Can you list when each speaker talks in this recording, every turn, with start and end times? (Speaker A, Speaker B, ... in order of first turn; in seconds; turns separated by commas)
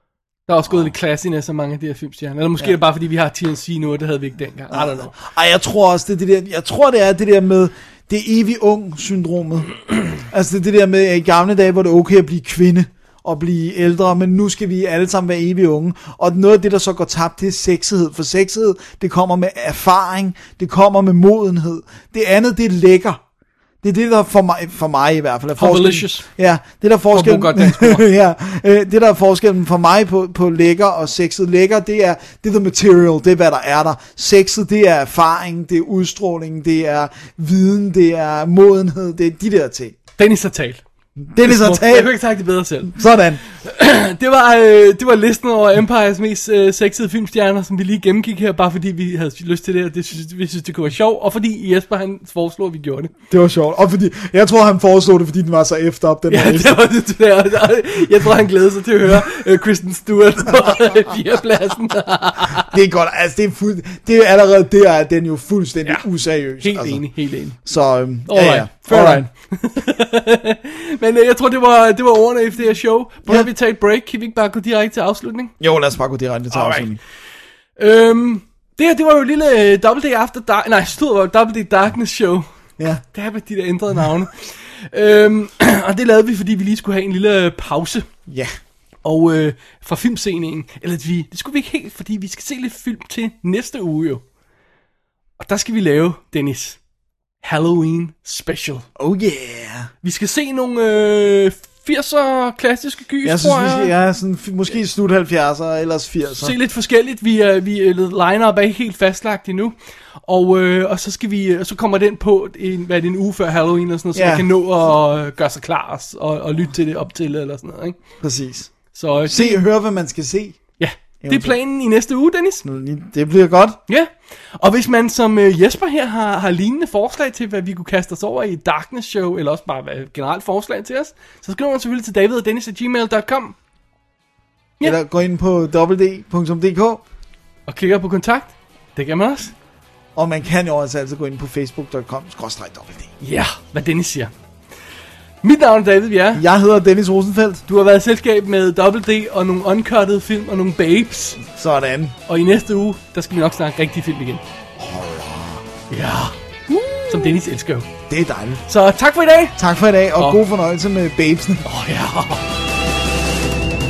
Speaker A: 0.5-5.1, Speaker B: 4.7-23.2, Speaker B: 23.8-40.0, Speaker A: 25.6-26.2, Speaker A: 27.1-28.0, Speaker A: 40.2-40.8, Speaker B: 41.2-42.1, Speaker A: 41.4-43.0, Speaker B: 42.9-43.4, Speaker A: 43.5-53.1, Speaker B: 53.3-56.8, Speaker A: 56.3-62.7, Speaker B: 62.5-67.0, Speaker A: 66.6-67.6, Speaker B: 67.6-69.3, Speaker A: 68.3-75.5, Speaker B: 75.6-77.0, Speaker A: 76.5-76.9, Speaker A: 77.8-82.5, Speaker A: 83.1-88.1, Speaker B: 88.3-88.5, Speaker A: 89.0-94.2, Speaker A: 95.4-96.8, Speaker A: 97.4-98.8, Speaker B: 99.0-99.9, Speaker A: 100.0-103.9, Speaker B: 103.2-106.5, Speaker A: 106.3-109.7, Speaker A: 110.2-118.0, Speaker B: 114.1-114.5, Speaker B: 118.2-118.7, Speaker A: 118.9-119.6, Speaker B: 119.2-120.6, Speaker A: 120.8-122.6, Speaker B: 121.2-121.6, Speaker B: 122.6-123.8, Speaker A: 123.9-133.5, Speaker B: 134.8-137.0, Speaker A: 137.7-139.5, Speaker B: 140.1-143.1, Speaker A: 143.2-144.3, Speaker A: 145.4-146.4, Speaker B: 146.3-147.6, Speaker A: 147.7-151.4, Speaker B: 151.4-152.1, Speaker A: 152.3-154.4, Speaker B: 154.8-155.6, Speaker A: 155.9-156.3, Speaker B: 156.7-157.4, Speaker A: 157.0-157.8, Speaker B: 158.1-158.6, Speaker A: 158.7-159.6, Speaker B: 159.6-161.6, Speaker A: 161.6-162.4